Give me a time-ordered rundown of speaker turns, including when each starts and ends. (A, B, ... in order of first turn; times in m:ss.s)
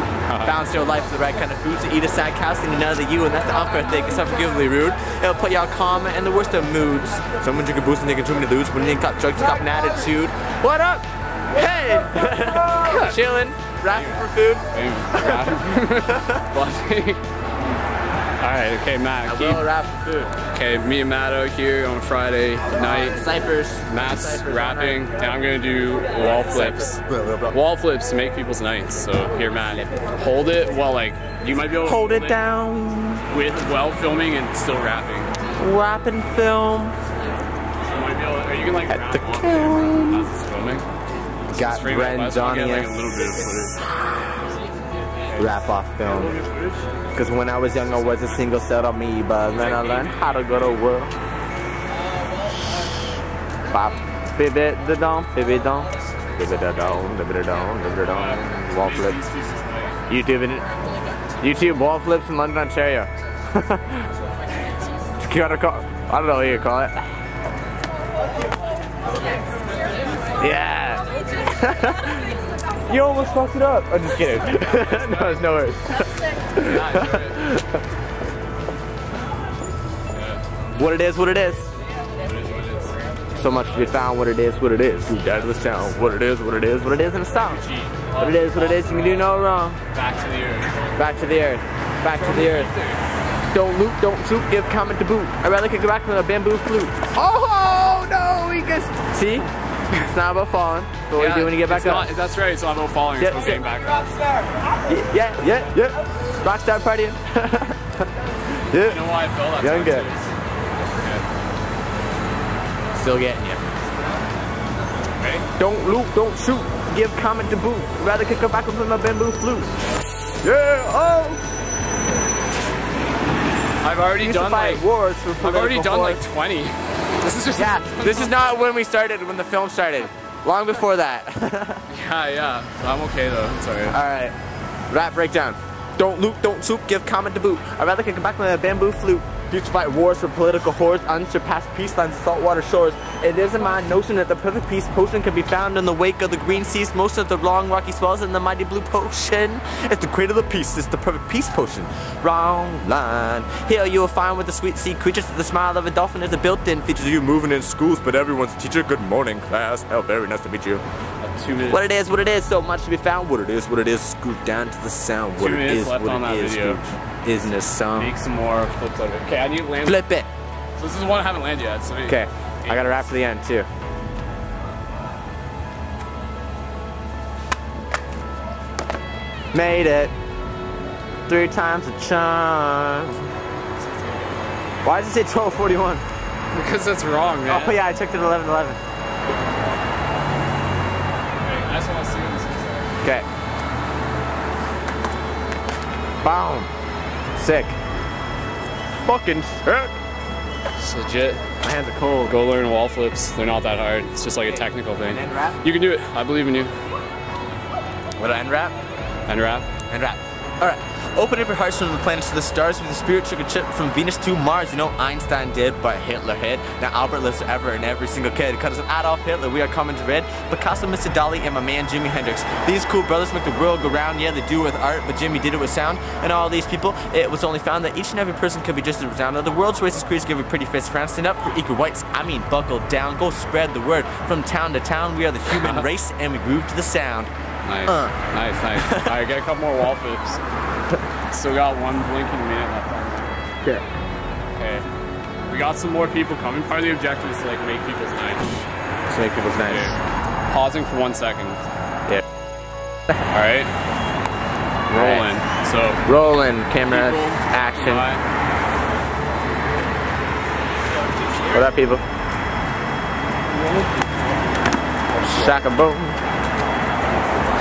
0:00.3-0:00.6 A
0:00.4-0:16.4 B
0:13.9-0:17.2 A
0:18.4-0:19.6 A
0:19.2-0:20.4 B
0:20.5-0:23.3 A
0:22.7-0:25.0 B
0:23.9-0:27.0 A
0:26.2-0:27.5 B
0:27.5-0:32.4 A
0:31.8-0:33.2 B
0:33.3-0:35.3 A
0:35.6-0:36.9 B
0:37.8-0:40.8 A
0:38.9-0:40.3 B
0:41.5-0:43.0 B
0:41.5-0:43.8 A
0:43.9-0:44.5 B
0:45.4-0:46.4 B
0:46.3-0:46.7 A
0:47.1-0:51.1 B
0:49.5-0:50.8 A
0:53.7-0:59.2 B
0:58.1-1:00.0 A
1:00.1-1:00.7 B
1:01.4-1:03.9 B
1:05.2-1:07.0 B
1:10.4-1:12.3 B
1:12.9-1:17.8 B
1:14.7-1:15.4 A
1:16.6-1:17.5 A
1:20.1-1:20.4 A
1:20.8-1:21.7 B
1:22.2-1:23.0 A
1:23.3-1:27.6 B
1:27.3-1:31.2 A
1:28.2-1:29.8 B
1:31.0-1:32.7 B
1:32.1-1:33.0 A
1:33.5-1:42.1 B
1:41.2-1:44.1 A
1:43.2-1:43.6 B
1:44.8-1:48.0 B
1:48.7-1:49.0 B
1:48.7-1:51.2 A
1:49.6-1:50.1 B
1:52.9-1:53.6 B
1:55.2-1:55.5 A
1:55.6-1:59.7 B
2:00.4-2:01.4 B
2:03.8-2:04.8 A
2:04.2-2:06.2 B
2:05.4-2:08.4 A
2:07.5-2:11.8 B
2:11.9-2:14.0 A
2:13.9-2:14.3 B
2:14.9-2:40.8 B
2:41.2-2:41.9 A
2:41.7-2:48.1 B
2:45.4-2:46.8 A
2:47.9-2:50.0 A
2:49.8-2:50.3 B
2:50.8-2:53.1 A
2:52.0-2:53.7 B
2:59.5-3:00.1 B
3:01.3-3:03.3 B
3:04.8-3:06.0 B
3:06.5-3:07.8 A
3:07.4-3:08.8 B
3:11.4-3:13.1 A
3:16.2-3:16.7 B
3:17.4-3:17.8 B
3:19.0-3:20.0 B
3:20.8-3:21.4 A
3:21.6-3:22.4 B
3:22.3-3:26.7 A
3:24.5-3:25.6 B
3:28.2-3:28.7 B
3:29.3-3:29.7 A
3:29.9-3:57.3 B
3:55.5-3:55.8 A
3:57.6-4:00.4 A
3:57.9-3:58.2 B
3:58.7-3:59.2 B
4:01.3-4:03.4 A
4:04.5-4:04.8 A
4:05.5-4:08.6 A
4:09.1-4:10.0 B
4:09.6-4:10.0 A
4:10.5-4:11.6 A
4:13.3-4:13.7 A
4:14.9-4:15.3 B
4:14.9-4:16.1 A
4:16.0-4:18.1 B
4:16.8-4:18.2 A
4:21.5-4:22.0 B
4:25.2-4:26.2 B